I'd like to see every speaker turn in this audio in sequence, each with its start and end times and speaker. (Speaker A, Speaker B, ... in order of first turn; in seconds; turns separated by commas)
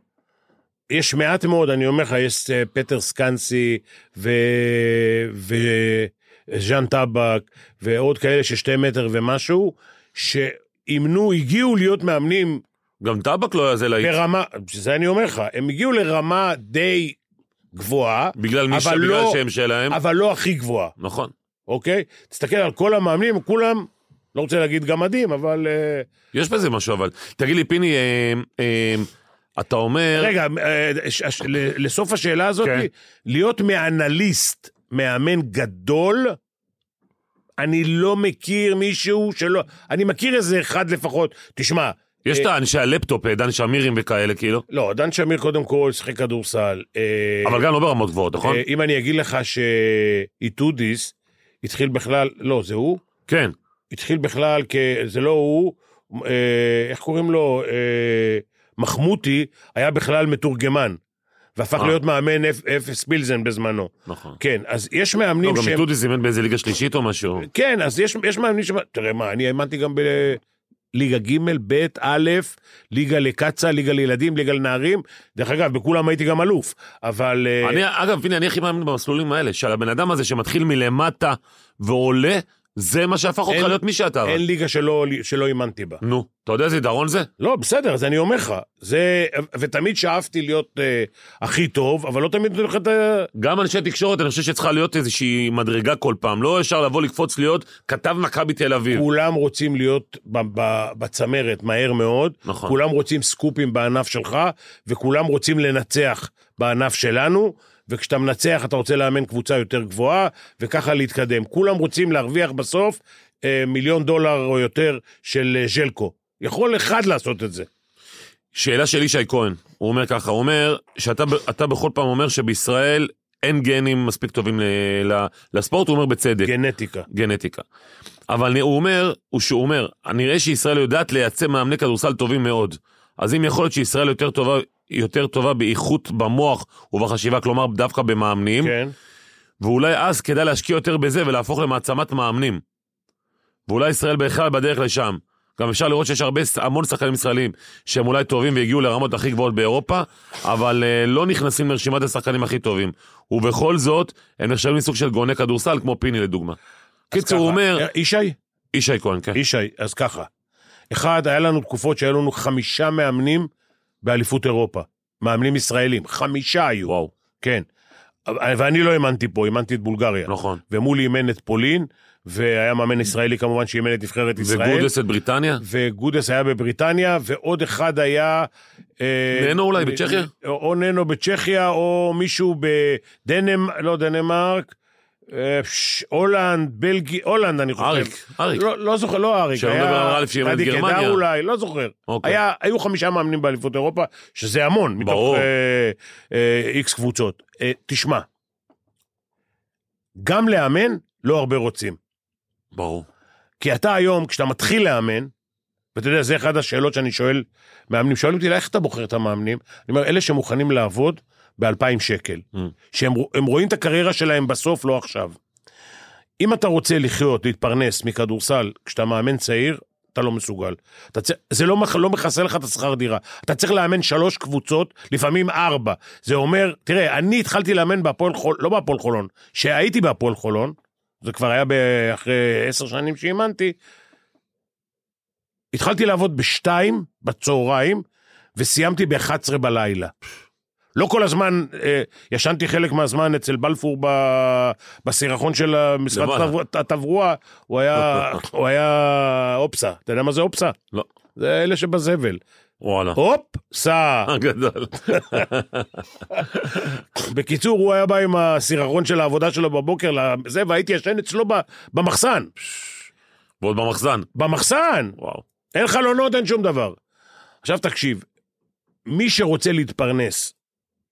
Speaker A: 0.9-12.6, Speaker B: 13.0-14.1, Speaker A: 14.0-17.2, Speaker A: 17.7-20.9, Speaker B: 18.4-20.0, Speaker B: 21.0-21.3, Speaker A: 21.7-26.1, Speaker B: 26.3-30.3, Speaker A: 30.1-36.4, Speaker A: 37.6-42.5, Speaker B: 42.2-44.6, Speaker A: 44.7-47.6, Speaker B: 47.4-48.6, Speaker A: 48.4-53.0, Speaker B: 53.3-53.5, Speaker A: 53.9-61.0, Speaker A: 61.6-65.8, Speaker B: 64.1-64.4, Speaker B: 65.4-67.5, Speaker A: 67.4-70.4, Speaker A: 70.9-77.8, Speaker B: 77.6-84.4, Speaker A: 83.5-86.0, Speaker B: 86.0-87.3, Speaker A: 87.4-93.3, Speaker B: 93.3-99.0, Speaker A: 98.9-117.7, Speaker B: 102.5-102.7, Speaker B: 118.5-126.5, Speaker A: 126.4-127.1, Speaker B: 127.1-127.6, Speaker B: 128.3-138.7, Speaker A: 138.6-138.9, Speaker B: 139.6-142.6, Speaker B: 143.7-156.6, Speaker B: 157.1-157.8, Speaker A: 157.1-158.4, Speaker B: 158.7-159.4, Speaker A: 159.3-160.3, Speaker A: 160.9-163.5, Speaker A: 164.0-167.7, Speaker B: 166.9-167.1, Speaker A: 168.3-174.9, Speaker B: 170.3-170.6, Speaker B: 174.4-175.6, Speaker A: 175.6-178.5, Speaker A: 179.0-184.7, Speaker B: 179.3-180.3, Speaker A: 185.3-198.3, Speaker B: 187.8-188.6, Speaker B: 189.5-191.2, Speaker B: 192.1-192.4, Speaker B: 195.0-195.4, Speaker A: 200.2-202.0, Speaker B: 202.7-203.1, Speaker A: 203.6-205.3, Speaker A: 205.9-215.3, Speaker A: 216.4-233.8, Speaker A: 235.7-238.0, Speaker A: 238.6-240.1, Speaker A: 240.9-250.8, Speaker B: 246.1-246.5, Speaker A: 251.3-252.4, Speaker B: 252.8-253.2, Speaker A: 253.1-254.3, Speaker B: 254.2-256.9, Speaker A: 257.1-262.5, Speaker B: 263.6-264.3, Speaker A: 264.3-265.2, Speaker B: 265.2-265.4, Speaker A: 265.7-267.0, Speaker A: 267.6-268.2, Speaker A: 269.1-270.5